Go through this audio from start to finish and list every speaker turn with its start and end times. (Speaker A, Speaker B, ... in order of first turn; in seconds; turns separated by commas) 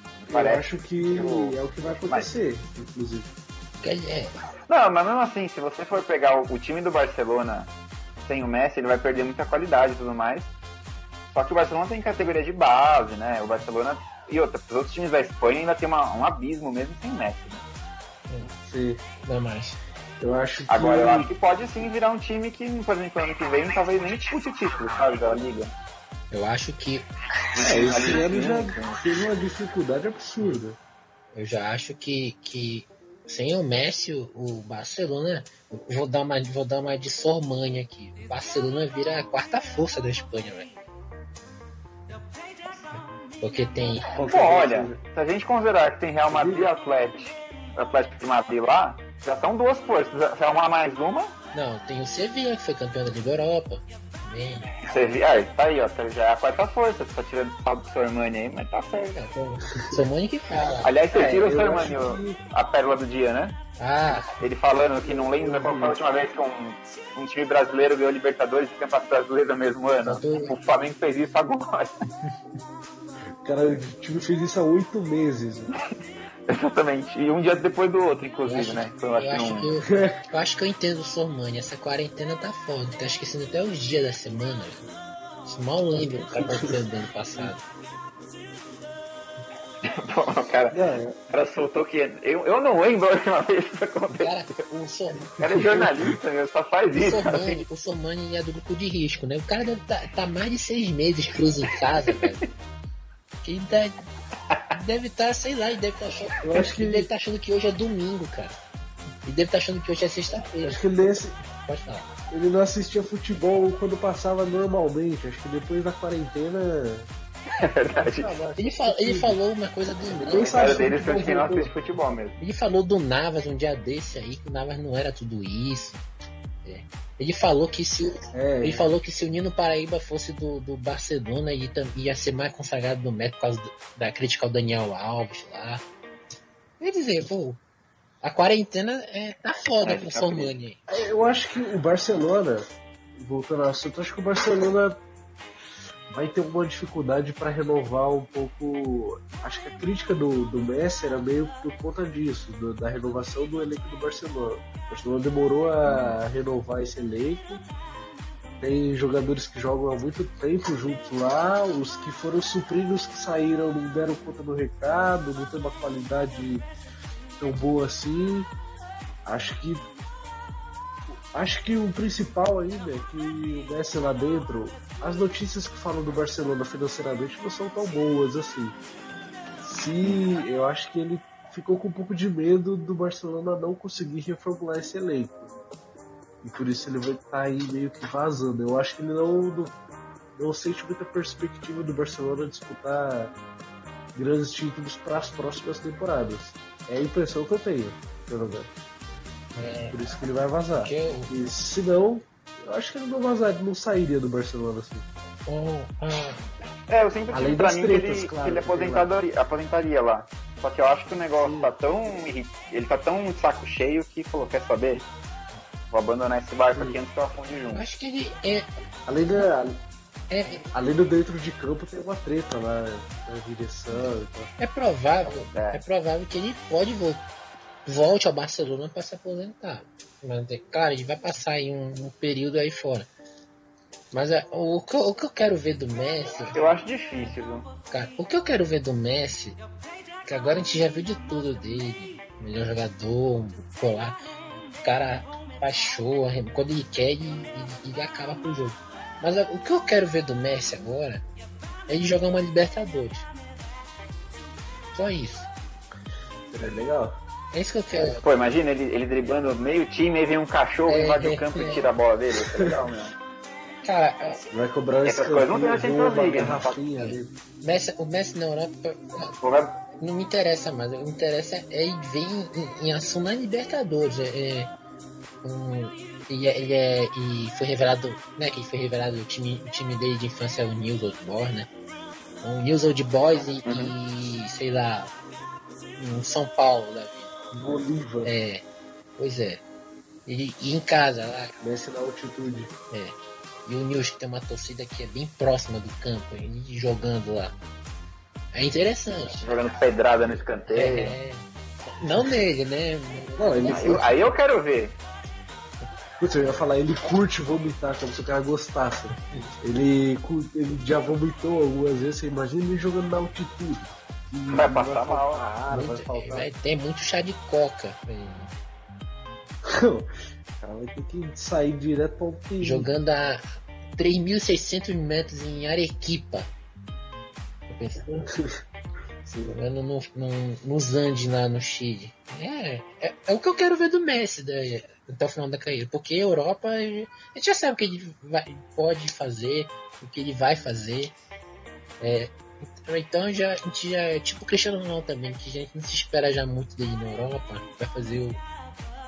Speaker A: 0.3-2.3, Speaker B: 0.3-3.3, Speaker C: 3.8-4.4, Speaker A: 4.7-7.7, Speaker A: 8.2-10.5, Speaker A: 11.3-17.6, Speaker B: 18.6-19.0, Speaker C: 19.2-19.8, Speaker B: 20.2-21.3, Speaker A: 20.7-25.7, Speaker C: 26.3-27.1, Speaker A: 27.5-29.1, Speaker B: 27.6-30.8, Speaker C: 31.3-40.7, Speaker C: 43.4-44.1, Speaker B: 44.1-45.0, Speaker A: 44.3-51.3, Speaker B: 46.3-46.7, Speaker C: 51.5-54.7, Speaker A: 54.8-59.1, Speaker C: 59.1-60.9, Speaker A: 60.8-63.6, Speaker B: 61.1-62.4, Speaker C: 63.8-64.3, Speaker A: 64.4-71.9, Speaker B: 65.0-66.0, Speaker C: 70.0-70.5, Speaker B: 73.4-75.7, Speaker A: 76.5-79.7, Speaker C: 78.5-84.8, Speaker B: 79.9-80.2, Speaker C: 85.5-87.6, Speaker B: 86.2-86.8, Speaker A: 89.8-90.8, Speaker B: 90.7-91.2, Speaker A: 91.3-94.3, Speaker C: 94.1-95.3, Speaker A: 95.4-97.6, Speaker B: 95.4-96.1, Speaker C: 96.9-102.5, Speaker C: 103.4-103.9, Speaker C: 104.7-108.5, Speaker B: 106.4-107.1, Speaker C: 109.2-110.8, Speaker B: 110.6-111.3, Speaker C: 111.6-112.1, Speaker B: 112.3-117.1, Speaker A: 117.6-118.3, Speaker B: 118.0-119.4, Speaker C: 118.6-120.8, Speaker B: 120.3-121.7, Speaker A: 120.3-122.3, Speaker C: 122.4-126.0, Speaker C: 126.6-135.8, Speaker B: 128.3-128.9, Speaker C: 136.8-137.6, Speaker C: 138.2-140.8, Speaker A: 139.8-140.5, Speaker B: 140.9-142.6, Speaker B: 143.2-145.0, Speaker B: 146.1-157.6, Speaker B: 158.6-166.7, Speaker B: 167.4-168.5, Speaker B: 169.3-169.8, Speaker B: 171.3-178.8, Speaker B: 179.6-185.5, Speaker B: 186.4-189.7, Speaker B: 190.3-193.3, Speaker B: 194.1-198.7, Speaker C: 199.5-200.0, Speaker B: 199.9-205.1, Speaker C: 200.8-201.3, Speaker C: 205.5-206.4, Speaker A: 206.9-215.1, Speaker B: 207.3-209.1, Speaker B: 211.3-211.7, Speaker A: 215.9-217.8, Speaker B: 216.7-217.0, Speaker C: 217.7-218.7, Speaker B: 219.1-219.8, Speaker C: 220.3-220.6, Speaker B: 220.7-224.5, Speaker C: 224.6-227.2, Speaker A: 225.2-225.8, Speaker C: 227.8-233.1, Speaker C: 234.1-236.6, Speaker A: 236.5-237.7, Speaker C: 237.9-239.6, Speaker C: 240.2-244.2, Speaker C: 244.8-251.2, Speaker C: 251.9-253.3, Speaker C: 254.9-255.5, Speaker B: 256.5-257.2, Speaker C: 257.5-258.2, Speaker A: 258.2-263.1, Speaker C: 260.9-261.9, Speaker C: 263.8-264.4, Speaker B: 264.5-267.3, Speaker A: 265.0-266.8, Speaker C: 267.0-269.3, Speaker A: 269.4-269.8, Speaker C: 270.0-274.7, Speaker C: 275.4-281.7, Speaker C: 282.4-285.1, Speaker A: 283.6-283.9, Speaker C: 286.0-287.5, Speaker B: 287.5-288.3, Speaker C: 288.2-288.6, Speaker C: 289.2-289.6, Speaker C: 290.2-291.5, Speaker B: 291.6-292.7, Speaker C: 292.9-297.6, Speaker C: 298.5-299.6, Speaker A: 299.4-301.1, Speaker C: 300.7-304.1, Speaker B: 300.8-301.1, Speaker B: 303.4-304.0, Speaker A: 303.7-305.0, Speaker B: 306.2-316.5, Speaker C: 309.1-309.5, Speaker A: 314.5-315.4, Speaker C: 315.7-318.5, Speaker B: 319.6-322.9, Speaker C: 322.6-323.4, Speaker C: 323.9-326.5, Speaker C: 327.7-328.3, Speaker B: 329.2-329.6, Speaker C: 329.5-341.1, Speaker C: 342.0-348.4